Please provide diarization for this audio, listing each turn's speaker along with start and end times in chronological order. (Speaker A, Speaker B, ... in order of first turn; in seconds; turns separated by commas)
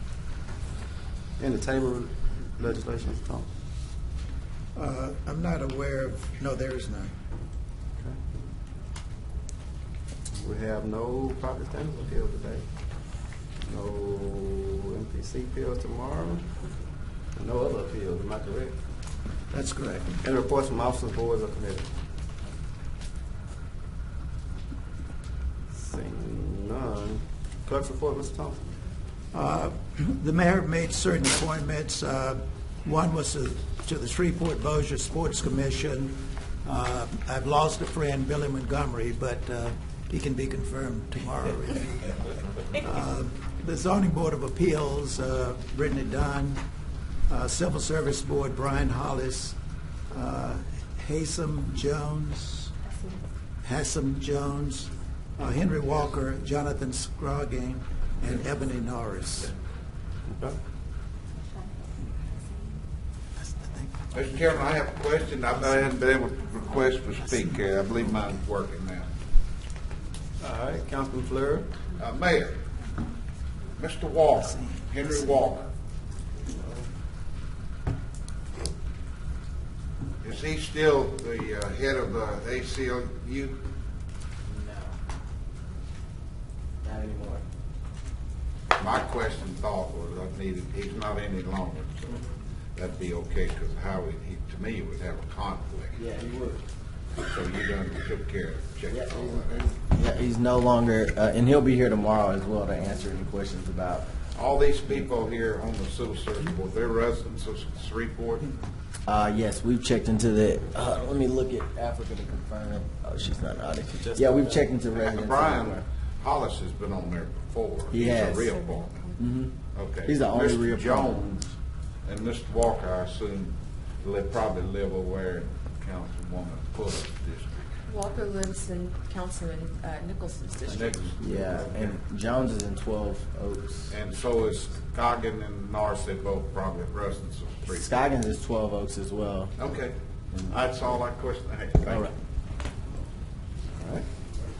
Speaker A: 1.4-3.5, Speaker B: 4.7-7.1, Speaker A: 10.3-12.6, Speaker A: 13.6-16.4, Speaker A: 17.3-18.8, Speaker B: 19.5-20.2, Speaker A: 20.2-21.9, Speaker A: 25.7-28.7, Speaker B: 29.3-46.6, Speaker B: 47.3-49.5, Speaker B: 50.1-52.7, Speaker B: 53.6-59.5, Speaker A: 60.3-60.6, Speaker B: 63.4-64.5, Speaker C: 64.1-69.1, Speaker B: 67.2-67.7, Speaker A: 70.4-71.7, Speaker C: 72.0-72.6, Speaker C: 73.8-75.7, Speaker B: 74.4-75.5, Speaker A: 76.4-76.9, Speaker C: 80.2-83.7, Speaker D: 84.5-85.0, Speaker D: 86.8-87.4, Speaker C: 88.8-96.0, Speaker D: 96.0-96.6, Speaker C: 97.2-99.7, Speaker D: 98.9-104.1, Speaker C: 104.3-108.5, Speaker D: 109.0-115.8, Speaker A: 113.9-114.7, Speaker C: 115.0-119.0, Speaker D: 117.9-118.5, Speaker E: 118.1-119.3, Speaker D: 119.2-121.2, Speaker C: 119.7-127.8, Speaker E: 127.9-131.1, Speaker C: 130.6-132.0, Speaker D: 131.2-133.9, Speaker C: 133.9-137.9, Speaker D: 137.7-139.6, Speaker C: 139.6-139.9, Speaker D: 140.3-140.8, Speaker C: 140.5-142.1, Speaker D: 141.9-142.1, Speaker A: 143.8-144.1